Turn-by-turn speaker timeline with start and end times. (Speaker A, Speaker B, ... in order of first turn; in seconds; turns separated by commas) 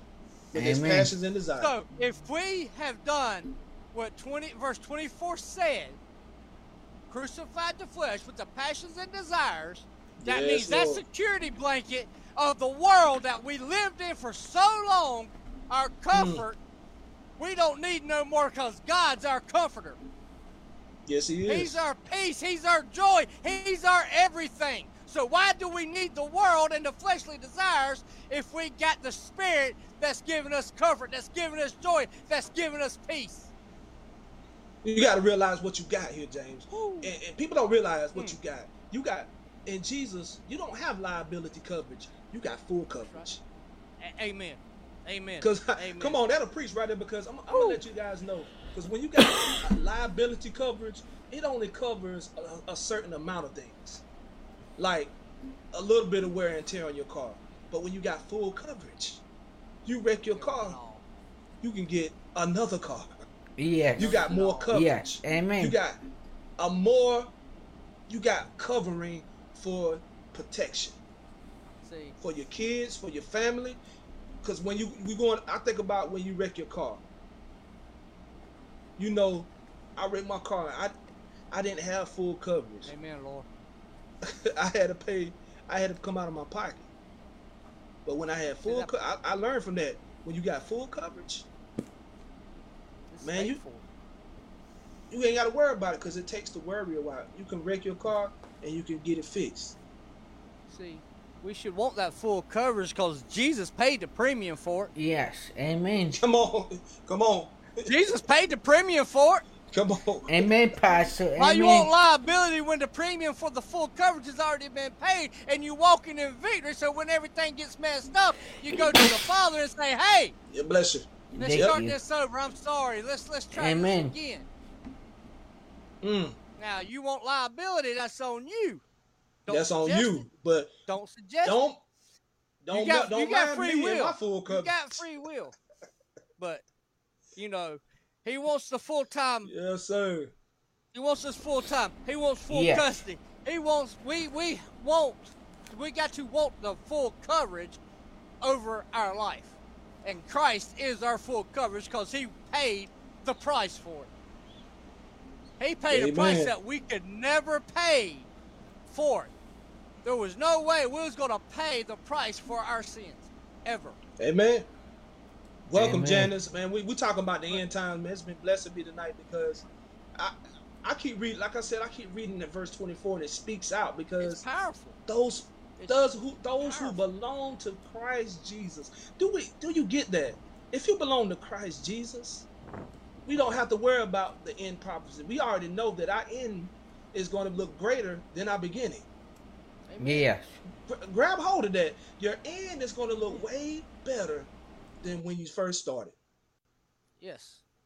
Speaker A: 0.5-1.7, Speaker B: 0.5-1.1, Speaker C: 1.6-6.0, Speaker C: 7.1-16.6, Speaker A: 10.2-11.0, Speaker A: 16.1-16.4, Speaker C: 17.4-20.0, Speaker A: 21.1-21.9, Speaker C: 21.5-33.5, Speaker A: 34.8-43.4, Speaker C: 36.7-37.1, Speaker C: 44.0-46.2, Speaker A: 45.4-54.0, Speaker C: 47.5-47.8, Speaker C: 49.3-49.6, Speaker A: 54.8-55.1, Speaker A: 55.7-59.2, Speaker A: 59.8-60.8, Speaker C: 60.2-61.0, Speaker A: 61.6-63.1, Speaker B: 63.6-65.8, Speaker C: 63.9-64.8, Speaker A: 64.0-66.0, Speaker A: 66.6-67.3, Speaker A: 68.1-71.0, Speaker C: 71.8-72.2, Speaker A: 72.2-73.8, Speaker A: 74.4-77.0, Speaker A: 79.0-80.9, Speaker A: 81.5-82.9, Speaker C: 82.9-83.5, Speaker A: 84.2-86.9, Speaker A: 88.0-91.5, Speaker C: 88.7-88.9, Speaker C: 93.1-93.8, Speaker A: 93.2-93.6, Speaker A: 95.1-99.8, Speaker C: 100.7-104.9, Speaker B: 105.0-106.2, Speaker A: 106.2-107.9, Speaker C: 107.9-109.4, Speaker A: 109.7-110.5, Speaker B: 110.3-111.9, Speaker C: 111.4-120.3, Speaker A: 120.5-121.8, Speaker C: 121.3-124.5, Speaker B: 121.4-122.0, Speaker B: 123.5-124.1, Speaker A: 126.0-126.4, Speaker C: 126.6-128.8, Speaker C: 129.4-130.2, Speaker A: 129.5-130.7, Speaker C: 130.9-131.6, Speaker A: 131.4-131.8, Speaker A: 132.6-135.0, Speaker C: 132.7-135.6, Speaker C: 136.4-136.6, Speaker C: 137.4-139.5, Speaker A: 139.4-140.3, Speaker C: 140.9-147.8, Speaker B: 142.5-143.0, Speaker C: 148.4-154.1, Speaker C: 155.6-158.3, Speaker A: 155.9-156.5, Speaker C: 158.9-159.3, Speaker C: 160.0-164.0, Speaker A: 164.2-164.7, Speaker A: 165.7-169.6, Speaker B: 165.7-166.3, Speaker A: 170.2-174.4, Speaker C: 174.2-175.0, Speaker A: 175.1-182.5, Speaker C: 175.8-176.0, Speaker C: 176.6-177.0, Speaker A: 183.3-189.1, Speaker C: 189.9-190.3, Speaker B: 190.0-190.6, Speaker A: 190.9-194.5, Speaker A: 195.0-196.2, Speaker C: 197.2-197.6